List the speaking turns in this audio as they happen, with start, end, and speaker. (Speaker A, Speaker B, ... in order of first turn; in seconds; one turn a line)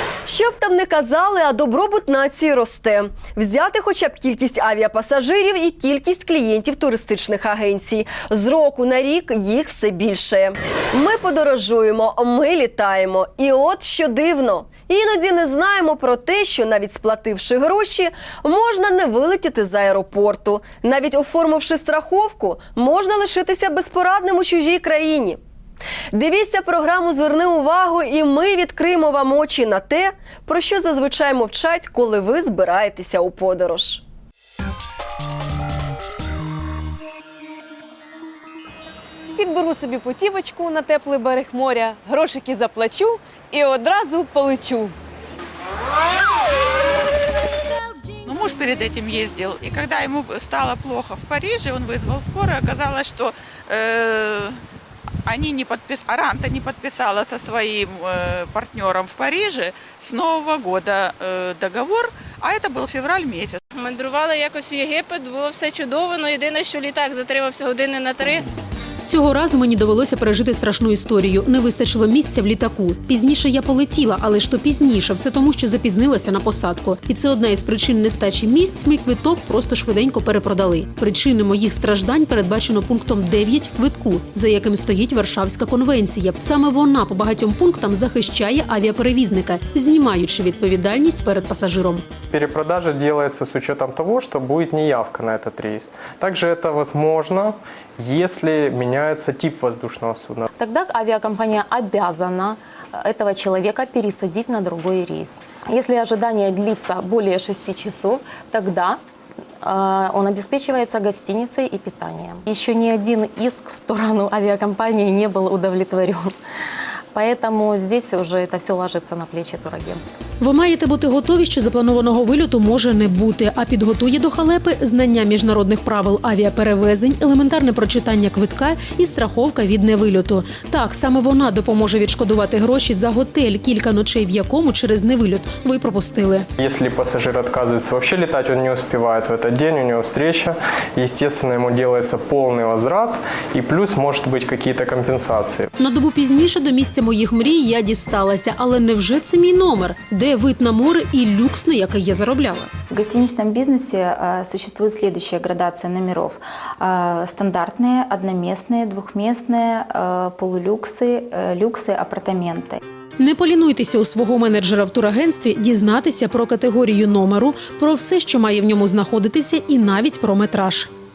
Speaker A: 0.3-25.4
Speaker A: 26.1-34.0
Speaker B: 39.4-44.9
Speaker C: 48.2-54.6
Speaker C: 55.2-63.6
Speaker D: 63.7-68.4
Speaker E: 69.0-92.0
Speaker F: 92.3-100.5
Speaker G: 100.6-109.0
Speaker G: 109.6-116.3
Speaker G: 117.1-120.1
Speaker E: 120.4-136.5
Speaker F: 136.6-145.7
Speaker E: 145.8-152.7
Speaker H: 152.9-162.8
Speaker E: 163.2-170.9